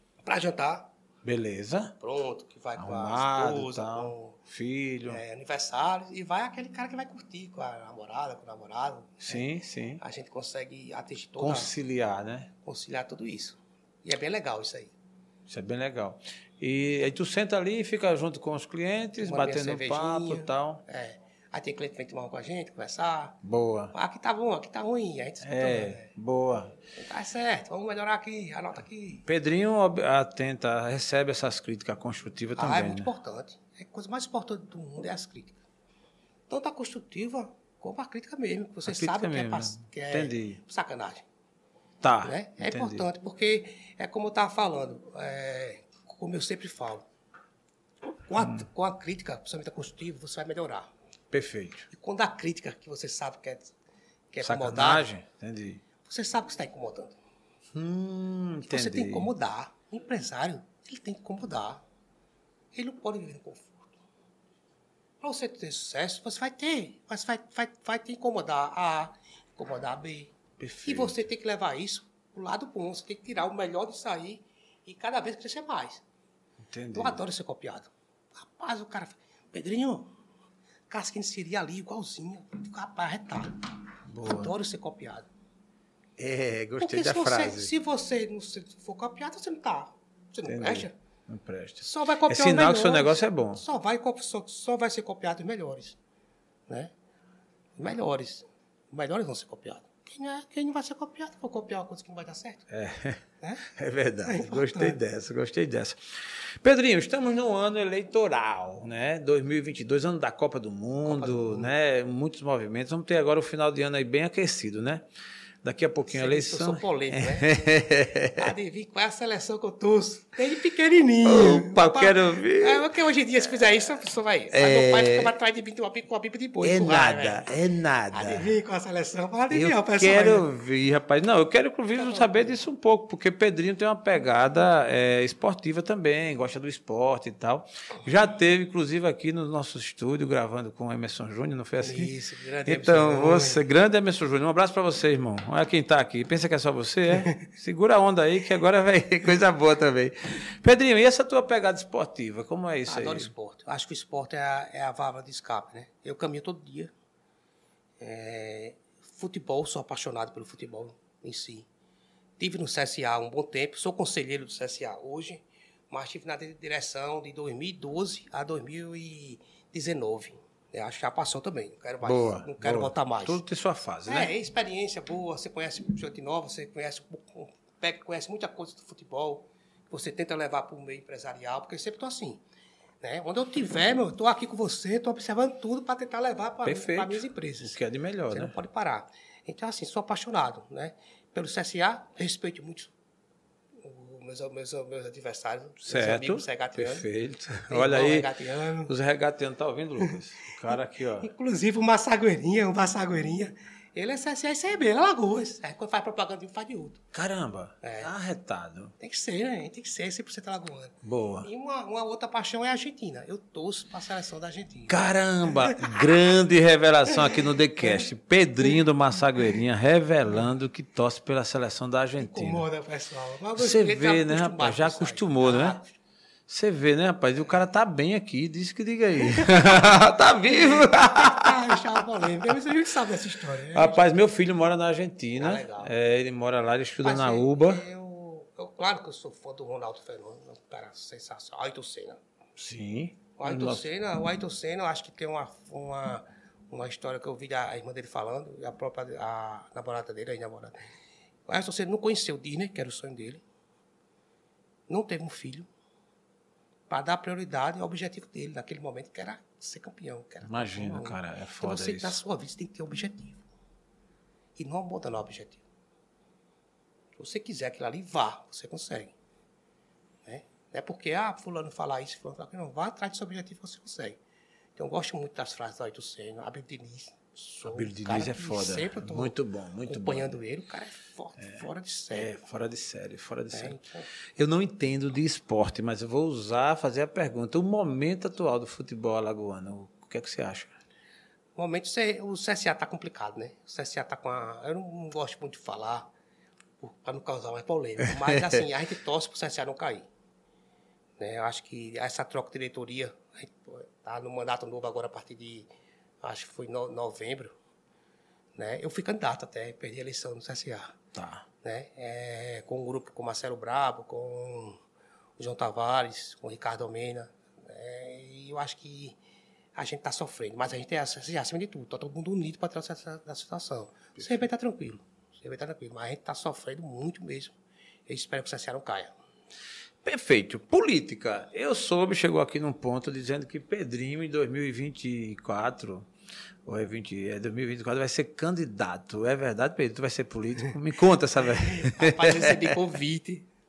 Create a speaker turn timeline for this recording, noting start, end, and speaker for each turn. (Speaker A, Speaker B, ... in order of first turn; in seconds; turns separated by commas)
Speaker A: 0.2-0.9, Speaker B: 1.2-1.9, Speaker A: 2.0-4.4, Speaker B: 2.8-5.2, Speaker A: 5.1-9.5, Speaker B: 9.2-10.0, Speaker A: 10.0-11.7, Speaker B: 11.4-12.5, Speaker A: 12.7-14.9, Speaker B: 15.5-20.8, Speaker A: 19.2-23.4, Speaker B: 23.4-23.9, Speaker A: 23.9-26.1, Speaker B: 25.4-26.8, Speaker A: 27.0-29.3, Speaker B: 29.3-33.1, Speaker A: 32.6-35.6, Speaker A: 36.5-41.2, Speaker B: 38.9-40.6, Speaker B: 42.0-43.1, Speaker A: 42.2-47.1, Speaker A: 48.1-50.9, Speaker B: 48.4-48.6, Speaker B: 51.3-51.9, Speaker A: 51.9-53.7, Speaker A: 54.3-55.1, Speaker B: 54.4-55.8, Speaker A: 56.0-57.2, Speaker B: 57.7-59.3, Speaker A: 58.7-61.8, Speaker A: 62.7-63.9, Speaker A: 65.2-76.0, Speaker B: 70.6-71.2, Speaker B: 76.6-77.2, Speaker A: 77.0-80.1, Speaker A: 80.9-83.6, Speaker B: 84.1-84.5, Speaker A: 84.2-85.3, Speaker B: 86.2-87.7, Speaker A: 86.8-90.9, Speaker B: 90.4-93.6, Speaker A: 91.8-96.0, Speaker A: 96.7-96.9, Speaker A: 97.8-102.7, Speaker B: 102.7-115.0, Speaker A: 103.4-103.7, Speaker A: 104.2-105.0, Speaker A: 111.1-111.7, Speaker B: 115.6-118.5, Speaker A: 116.1-117.5, Speaker A: 118.3-127.5, Speaker B: 121.2-122.9, Speaker B: 124.5-125.3, Speaker B: 126.6-128.5, Speaker A: 128.1-130.5, Speaker B: 129.5-142.1, Speaker A: 131.9-132.6, Speaker A: 141.8-143.6, Speaker B: 142.7-153.3, Speaker A: 147.1-147.5, Speaker A: 152.9-156.9, Speaker A: 158.0-161.7, Speaker A: 162.4-173.4, Speaker B: 172.0-174.3, Speaker A: 174.1-182.4, Speaker A: 183.0-187.8, Speaker B: 186.6-188.5, Speaker A: 188.3-192.9, Speaker A: 193.8-197.1, Speaker B: 195.9-198.3, Speaker A: 197.7-198.9, Speaker B: 198.9-201.3, Speaker A: 200.7-207.0, Speaker B: 207.1-208.9, Speaker A: 207.8-208.1, Speaker A: 209.0-215.0, Speaker B: 211.0-211.5, Speaker B: 214.9-222.7, Speaker A: 215.5-216.0, Speaker A: 217.1-218.1, Speaker A: 222.2-225.9, Speaker B: 223.6-225.8, Speaker B: 226.5-231.8, Speaker A: 230.4-234.2, Speaker B: 233.6-237.8, Speaker A: 235.4-235.9, Speaker A: 237.0-242.2, Speaker B: 242.6-243.9, Speaker A: 243.4-250.8, Speaker A: 251.5-253.4, Speaker A: 254.9-255.7, Speaker A: 256.9-263.4, Speaker B: 260.4-262.2, Speaker A: 264.6-265.6, Speaker A: 267.2-269.1, Speaker A: 270.3-274.2, Speaker A: 274.8-282.4, Speaker B: 277.7-280.4, Speaker B: 282.1-283.8, Speaker A: 283.5-284.1, Speaker B: 284.4-290.7, Speaker A: 291.6-296.1, Speaker A: 296.8-300.1, Speaker B: 298.3-298.6, Speaker A: 301.2-305.7, Speaker A: 306.2-307.5, Speaker A: 308.6-311.0, Speaker B: 311.1-311.4, Speaker A: 311.6-314.8, Speaker A: 315.4-319.2, Speaker A: 319.8-327.6, Speaker B: 324.2-324.5, Speaker A: 328.1-329.1, Speaker B: 330.0-336.1, Speaker B: 336.6-342.8, Speaker A: 341.5-343.5